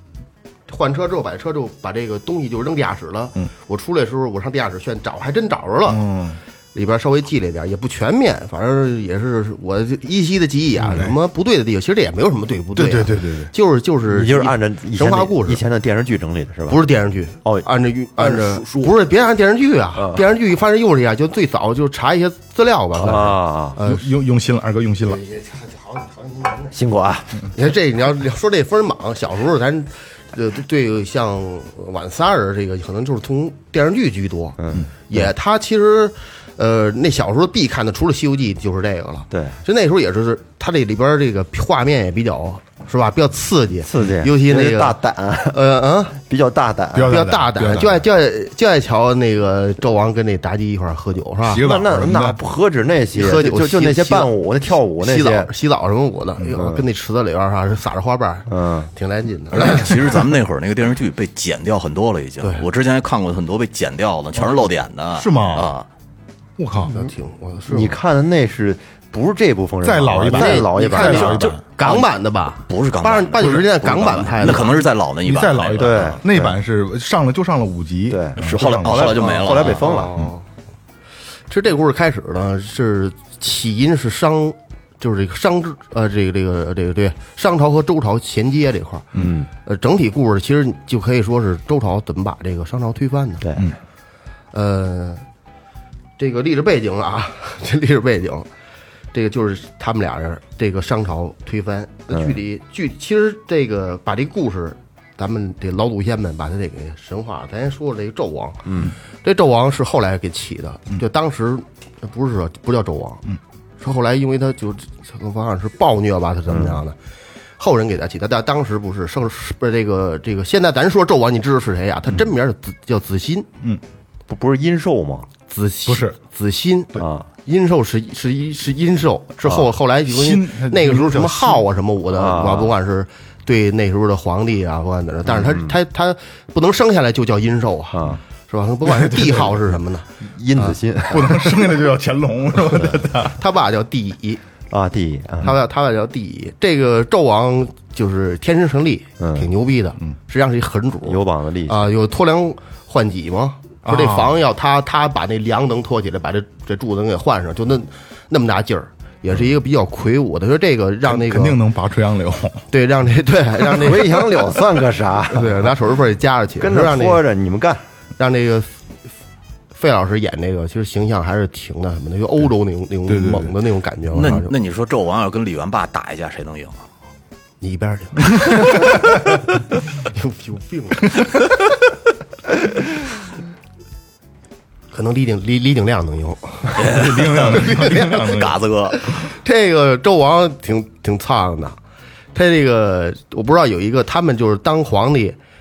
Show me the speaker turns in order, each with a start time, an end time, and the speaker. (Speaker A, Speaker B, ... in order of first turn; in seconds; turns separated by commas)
Speaker A: 0.7-6.0, Speaker B: 5.8-6.4, Speaker A: 6.7-15.6, Speaker B: 12.7-13.5, Speaker C: 14.1-16.8, Speaker A: 16.7-24.1, Speaker C: 18.2-18.9, Speaker C: 19.9-20.2, Speaker C: 23.0-23.8, Speaker B: 23.8-25.2, Speaker A: 25.2-26.7, Speaker C: 26.7-27.5, Speaker A: 27.5-46.2, Speaker C: 34.6-35.3, Speaker C: 39.3-39.6, Speaker C: 43.8-45.6, Speaker C: 46.2-47.2, Speaker B: 46.9-48.0, Speaker A: 47.1-51.6, Speaker B: 51.5-52.4, Speaker C: 51.6-55.5, Speaker A: 53.1-54.3, Speaker A: 55.0-60.0, Speaker C: 56.5-56.8, Speaker C: 58.5-58.9, Speaker D: 59.5-65.8, Speaker A: 62.4-62.7, Speaker B: 65.1-65.7, Speaker B: 66.6-67.0, Speaker A: 66.8-68.0, Speaker C: 67.7-71.5, Speaker B: 69.8-71.6, Speaker A: 70.3-74.8, Speaker D: 71.5-72.1, Speaker D: 72.7-76.2, Speaker B: 75.2-79.3, Speaker C: 75.7-76.6, Speaker C: 78.1-80.2, Speaker D: 78.4-80.0, Speaker A: 79.3-80.4, Speaker A: 81.5-89.1, Speaker C: 89.1-89.5, Speaker A: 89.6-93.4, Speaker C: 93.4-93.7, Speaker A: 94.5-95.2, Speaker A: 96.2-98.5, Speaker A: 99.1-113.2, Speaker C: 102.1-102.4, Speaker C: 108.7-108.9, Speaker A: 113.8-117.0, Speaker A: 117.6-123.5, Speaker C: 124.3-125.3, Speaker A: 125.5-141.4, Speaker B: 125.8-126.2, Speaker C: 127.0-127.3, Speaker B: 130.1-131.6, Speaker C: 132.1-132.7, Speaker C: 135.2-135.7, Speaker C: 137.9-138.2, Speaker B: 138.8-139.7, Speaker C: 140.2-141.4, Speaker B: 141.1-143.4, Speaker A: 143.2-144.4, Speaker C: 144.7-145.6, Speaker A: 145.4-161.6, Speaker C: 149.2-149.5, Speaker C: 151.1-151.9, Speaker B: 153.8-154.4, Speaker B: 161.0-162.7, Speaker A: 162.7-164.6, Speaker C: 163.6-165.7, Speaker A: 165.3-167.2, Speaker C: 166.6-167.8, Speaker A: 168.2-168.7, Speaker A: 169.7-174.5, Speaker B: 173.1-173.5, Speaker D: 174.1-176.8, Speaker A: 177.6-179.2, Speaker A: 180.0-181.4, Speaker A: 184.9-188.3, Speaker D: 186.8-189.0, Speaker B: 186.8-188.6, Speaker A: 188.9-191.8, Speaker A: 192.3-195.4